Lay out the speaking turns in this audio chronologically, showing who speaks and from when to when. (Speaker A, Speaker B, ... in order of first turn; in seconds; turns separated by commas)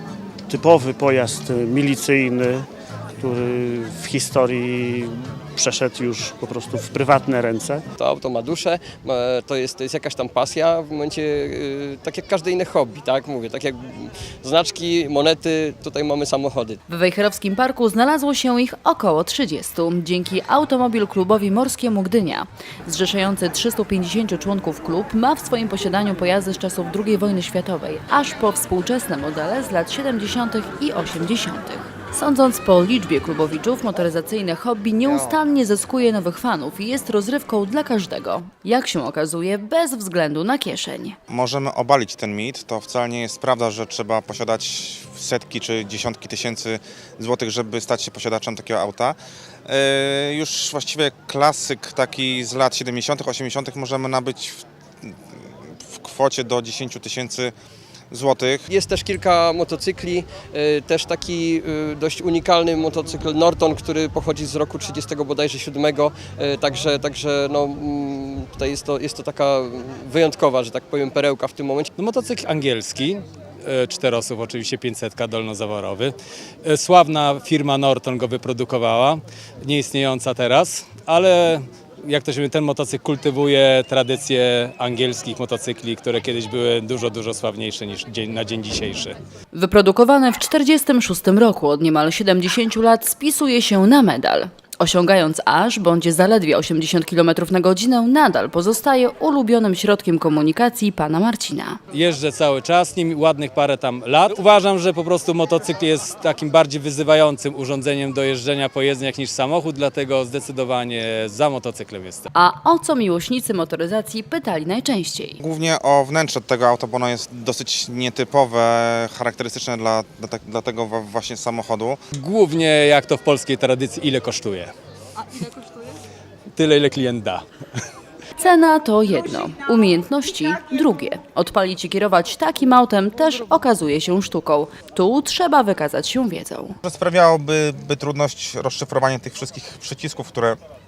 Speaker A: 0.5-2.7, Speaker A: 3.2-7.8, Speaker B: 8.0-16.8, Speaker C: 16.9-41.2, Speaker D: 35.0-35.4, Speaker D: 41.3-55.1, Speaker D: 55.7-57.5, Speaker D: 58.1-58.7, Speaker B: 58.7-71.9, Speaker E: 72.0-89.2, Speaker C: 89.5-101.8, Speaker E: 101.9-112.3, Speaker C: 112.3-115.4, Speaker D: 115.4-122.0, Speaker E: 122.2-124.7, Speaker E: 126.5-127.4, Speaker C: 128.3-136.8, Speaker D: 136.8-140.6